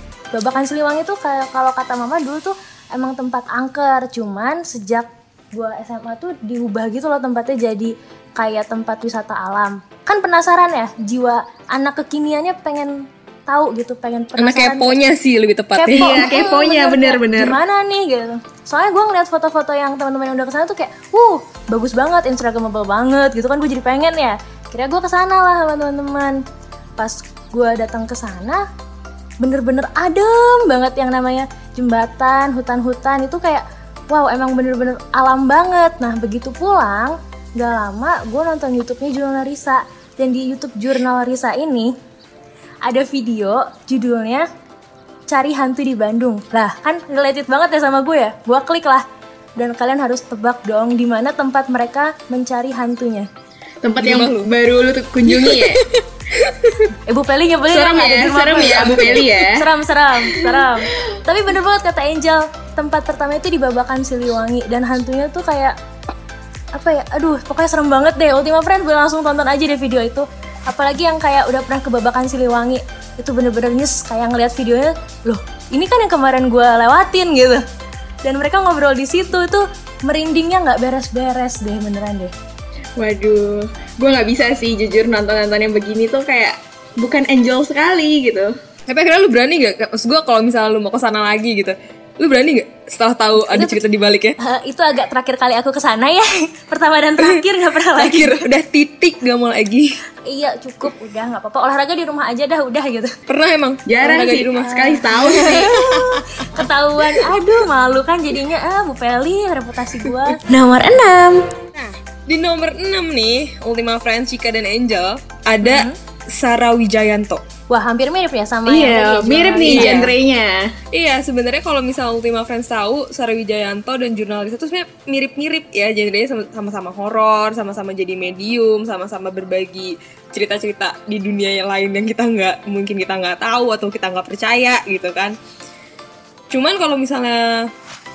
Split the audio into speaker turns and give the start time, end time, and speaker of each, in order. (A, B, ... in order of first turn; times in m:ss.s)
0:00.3-0:15.0 A
0:14.4-0:16.3 B
0:15.8-0:26.4 A
0:15.9-0:17.6 C
0:27.0-0:28.6 A
0:29.4-0:41.9 A
0:42.8-0:44.4 A
0:45.3-0:49.0 A
0:49.6-0:53.3 A
0:53.8-0:55.8 C
0:54.0-0:54.5 B
0:55.3-0:56.9 B
0:57.1-1:05.8 A
0:57.7-0:59.7 C
1:06.7-1:17.6 A
1:18.2-1:22.3 A
1:23.0-1:28.5 C
1:28.9-1:34.4 B
1:33.4-1:33.8 A
1:34.4-1:38.5 A
1:37.2-1:37.4 B
1:38.0-1:40.0 B
1:40.3-1:43.2 A
1:43.3-1:46.6 B
1:43.9-1:45.9 C
1:44.6-1:45.8 A
1:46.4-1:51.5 A
1:50.0-1:50.4 B
1:51.8-1:57.4 B
1:55.6-1:56.0 A
1:57.7-2:00.0 A
1:58.7-2:00.7 C
1:59.6-2:00.1 B
2:00.9-2:15.4 B
2:16.5-2:17.7 B